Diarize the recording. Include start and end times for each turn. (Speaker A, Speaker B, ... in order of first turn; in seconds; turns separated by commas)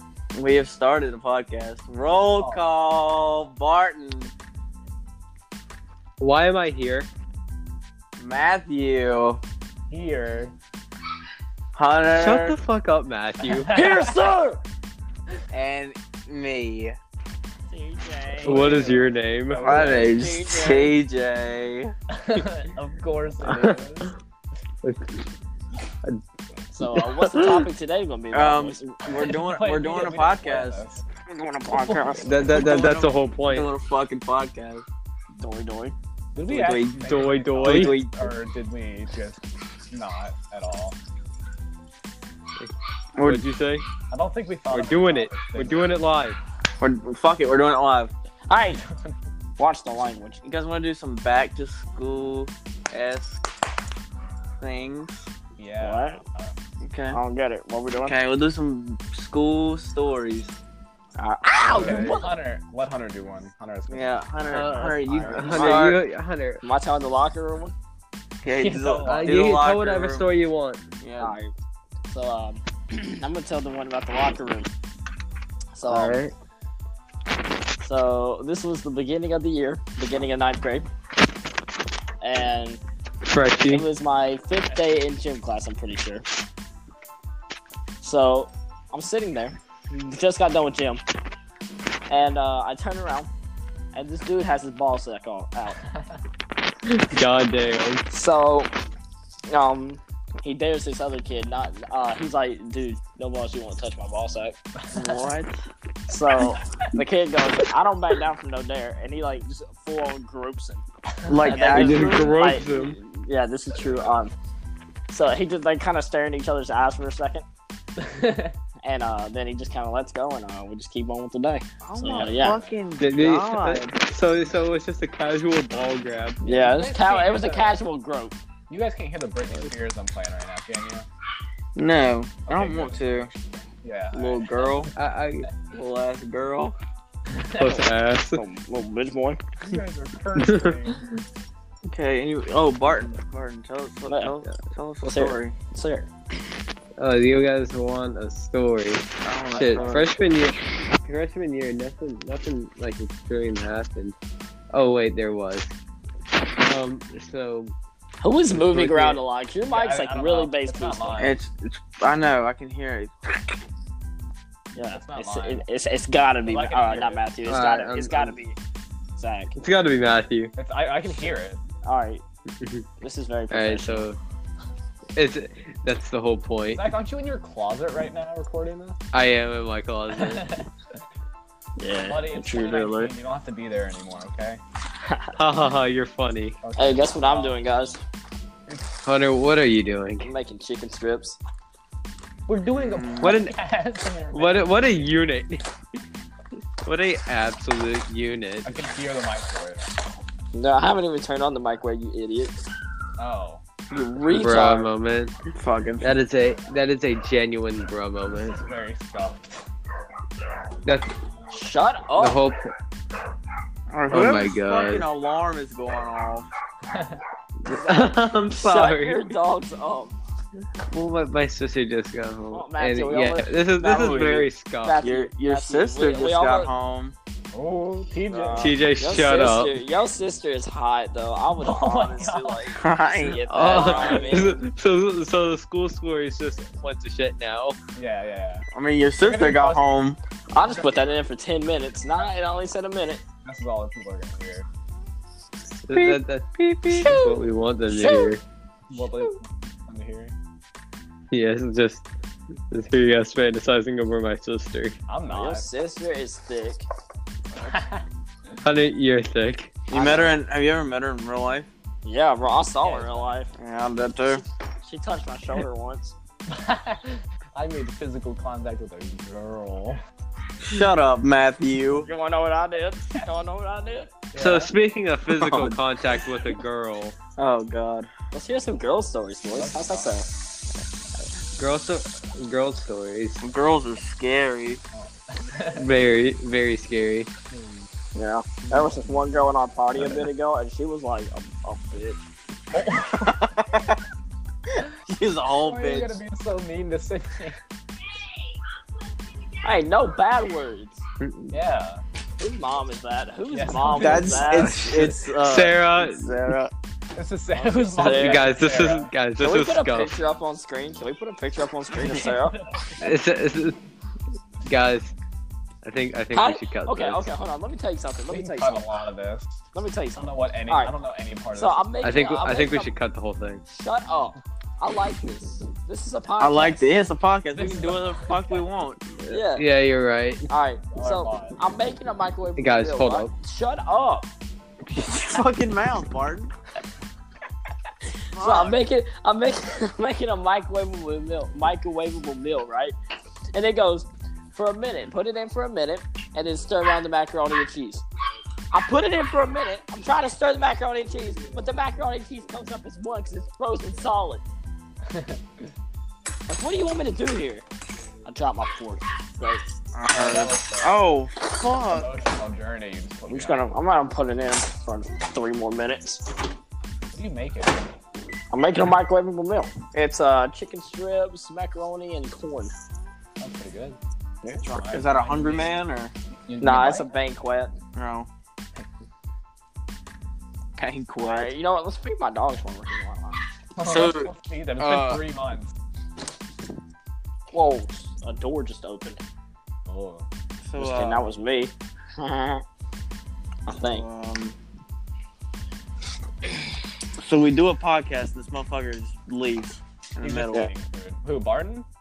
Speaker A: 0.3-4.3, Speaker B: 2.1-2.6, Speaker C: 6.2-7.1, Speaker A: 8.2-9.4, Speaker B: 9.9-10.5, Speaker A: 11.7-12.6, Speaker C: 12.1-13.7, Speaker B: 13.4-14.2, Speaker D: 13.7-14.6, Speaker A: 15.5-17.0, Speaker D: 17.7-18.9, Speaker B: 18.4-20.4, Speaker C: 18.4-20.0, Speaker A: 19.6-21.9, Speaker D: 19.8-20.9, Speaker B: 22.1-24.1, Speaker C: 23.4-23.8, Speaker C: 24.8-25.2, Speaker D: 26.7-28.9, Speaker C: 26.9-27.7, Speaker A: 28.3-30.8, Speaker B: 29.2-31.0, Speaker D: 31.2-32.4, Speaker B: 31.7-32.6, Speaker C: 32.2-33.7, Speaker A: 32.5-34.8, Speaker D: 35.4-35.9, Speaker B: 36.3-41.0, Speaker A: 36.5-38.3, Speaker C: 37.0-37.9, Speaker C: 42.6-43.9, Speaker A: 43.1-43.4, Speaker B: 44.1-45.9, Speaker C: 44.7-46.4, Speaker A: 46.8-48.1, Speaker D: 48.5-48.8, Speaker B: 48.7-49.1, Speaker D: 49.6-50.4, Speaker A: 50.4-53.4, Speaker A: 54.6-55.3, Speaker B: 55.6-56.5, Speaker D: 55.8-56.2, Speaker A: 56.8-57.2, Speaker D: 57.1-58.2, Speaker A: 58.0-60.5, Speaker D: 61.2-62.2, Speaker B: 61.6-65.4, Speaker A: 63.9-66.0, Speaker C: 64.5-66.6, Speaker D: 65.1-65.9, Speaker D: 66.6-67.7, Speaker A: 68.4-70.2, Speaker B: 68.4-69.4, Speaker C: 69.0-70.8, Speaker A: 71.0-71.3, Speaker D: 71.2-71.5, Speaker D: 72.1-74.7, Speaker D: 75.7-76.2, Speaker C: 75.9-76.3, Speaker D: 77.8-80.9, Speaker D: 82.2-82.8, Speaker C: 83.2-83.8, Speaker D: 83.7-86.2, Speaker B: 84.7-85.0, Speaker D: 88.0-91.0, Speaker D: 92.1-93.3, Speaker D: 93.9-95.8, Speaker C: 96.8-98.0, Speaker D: 98.1-98.7, Speaker D: 99.5-104.5, Speaker B: 104.8-105.3, Speaker A: 104.9-105.5, Speaker D: 106.1-110.8, Speaker A: 111.3-112.4, Speaker D: 111.4-114.3, Speaker C: 111.5-113.0, Speaker B: 113.8-114.1, Speaker D: 115.1-117.4, Speaker B: 118.0-118.5, Speaker D: 118.8-122.6, Speaker A: 121.8-124.0, Speaker B: 122.0-122.8, Speaker C: 123.0-126.6, Speaker D: 126.4-128.4, Speaker B: 126.5-127.8, Speaker B: 128.7-131.1, Speaker A: 131.7-133.3, Speaker B: 132.5-134.9, Speaker A: 134.1-134.9, Speaker C: 134.9-135.5, Speaker A: 135.7-136.8, Speaker B: 137.3-137.8, Speaker C: 137.6-138.4, Speaker D: 138.3-139.4, Speaker B: 139.6-141.1, Speaker C: 140.3-141.0, Speaker A: 141.9-145.5, Speaker D: 144.1-144.3, Speaker D: 145.0-146.1, Speaker C: 147.0-154.2, Speaker A: 149.2-150.1, Speaker C: 154.7-155.7, Speaker C: 156.4-157.7, Speaker D: 158.2-161.3, Speaker C: 158.7-159.2, Speaker B: 159.6-161.4, Speaker A: 161.2-163.6, Speaker D: 164.7-168.6, Speaker B: 164.9-165.6, Speaker B: 166.4-167.2, Speaker C: 167.4-168.4, Speaker D: 169.2-169.5, Speaker C: 169.6-170.5, Speaker B: 170.6-171.6, Speaker D: 171.8-172.2, Speaker C: 172.6-172.8, Speaker D: 173.0-174.1, Speaker C: 173.5-174.2, Speaker C: 175.2-176.9, Speaker B: 176.7-179.0, Speaker C: 179.1-180.5, Speaker B: 180.1-180.7, Speaker D: 181.8-183.1, Speaker B: 181.9-184.6, Speaker C: 185.3-186.6, Speaker B: 186.6-187.6, Speaker D: 186.8-188.0, Speaker C: 189.0-190.3, Speaker D: 190.2-191.4, Speaker B: 192.5-195.1, Speaker A: 192.7-193.3, Speaker C: 193.2-193.5, Speaker C: 194.3-195.6, Speaker C: 196.8-198.8, Speaker B: 198.6-199.9, Speaker D: 200.5-202.5, Speaker B: 203.2-203.6, Speaker D: 203.9-204.9, Speaker C: 204.3-205.3, Speaker A: 205.5-206.1, Speaker C: 206.0-208.6, Speaker B: 208.4-209.6, Speaker C: 210.8-211.1, Speaker D: 211.5-212.4, Speaker C: 212.2-212.7, Speaker A: 213.9-216.5, Speaker C: 214.1-215.1, Speaker B: 216.9-217.2, Speaker C: 217.6-219.2, Speaker D: 217.7-220.1, Speaker C: 220.8-225.0, Speaker D: 222.5-226.7, Speaker A: 223.8-224.5, Speaker A: 225.0-227.2, Speaker B: 227.5-228.9, Speaker D: 228.3-234.6, Speaker C: 228.5-229.8, Speaker B: 231.6-232.7, Speaker A: 232.8-234.1, Speaker C: 233.5-237.8, Speaker B: 237.9-238.7, Speaker A: 238.7-240.2, Speaker B: 239.2-239.9, Speaker D: 240.5-243.2, Speaker B: 240.6-241.1, Speaker B: 243.4-244.6, Speaker C: 245.9-248.4, Speaker B: 246.9-247.4, Speaker B: 247.9-248.3, Speaker B: 248.9-250.3, Speaker C: 251.3-252.1, Speaker C: 252.7-255.0, Speaker B: 255.1-255.7, Speaker D: 255.3-256.8, Speaker B: 257.6-258.0, Speaker C: 258.6-259.8, Speaker A: 259.9-261.7, Speaker D: 259.9-260.3, Speaker D: 262.0-263.5, Speaker B: 262.8-263.3, Speaker A: 263.6-264.4, Speaker D: 264.8-266.1, Speaker B: 266.5-270.0, Speaker A: 270.6-272.1, Speaker D: 272.0-274.1, Speaker B: 274.3-274.7, Speaker C: 274.3-277.1, Speaker A: 275.3-275.8, Speaker A: 277.4-278.1, Speaker D: 278.3-280.3, Speaker B: 279.5-280.2, Speaker C: 281.6-283.4, Speaker A: 283.4-284.8, Speaker B: 284.9-285.9, Speaker C: 285.8-287.3, Speaker B: 287.5-287.9, Speaker D: 288.1-292.2, Speaker B: 288.7-288.9, Speaker B: 292.7-293.4, Speaker A: 293.2-294.0, Speaker A: 295.1-296.2, Speaker B: 295.5-297.6, Speaker D: 299.6-301.0, Speaker C: 301.2-301.5, Speaker B: 301.5-302.0, Speaker D: 302.4-304.8, Speaker B: 303.5-305.2, Speaker A: 303.9-306.7, Speaker C: 304.5-306.6, Speaker B: 307.1-309.1, Speaker D: 307.5-308.5, Speaker C: 308.0-310.1, Speaker D: 309.4-312.6, Speaker B: 312.2-313.1, Speaker C: 313.0-313.8, Speaker C: 314.6-315.1, Speaker C: 315.8-317.3, Speaker D: 316.3-318.8, Speaker B: 318.3-319.6, Speaker D: 319.7-320.9, Speaker B: 320.1-321.9, Speaker D: 321.5-322.9, Speaker C: 322.0-323.6, Speaker D: 323.7-326.9, Speaker A: 326.4-329.4, Speaker B: 327.5-328.7, Speaker D: 329.3-329.7, Speaker C: 329.5-330.5, Speaker D: 330.5-334.3, Speaker B: 330.9-331.6, Speaker C: 332.6-333.3, Speaker A: 334.9-336.5, Speaker A: 338.3-338.8, Speaker D: 338.4-342.9, Speaker D: 343.5-348.0, Speaker D: 348.7-354.4, Speaker B: 355.1-355.4, Speaker D: 356.5-357.6, Speaker D: 358.2-359.6, Speaker A: 359.9-362.1, Speaker B: 360.1-361.0, Speaker B: 361.9-363.7, Speaker D: 363.3-366.2, Speaker B: 367.1-367.9, Speaker D: 368.5-372.7, Speaker B: 373.4-374.0, Speaker A: 374.4-376.1, Speaker B: 374.6-375.8, Speaker B: 376.5-377.1, Speaker D: 376.6-377.7, Speaker A: 377.9-378.3, Speaker A: 380.8-381.5, Speaker D: 381.2-383.4, Speaker B: 383.8-385.7, Speaker A: 383.8-385.2, Speaker D: 387.5-389.2, Speaker B: 389.9-390.2, Speaker A: 390.6-391.2, Speaker D: 390.8-392.6, Speaker D: 393.7-394.0, Speaker A: 393.8-394.5, Speaker A: 397.2-400.7, Speaker B: 400.2-401.9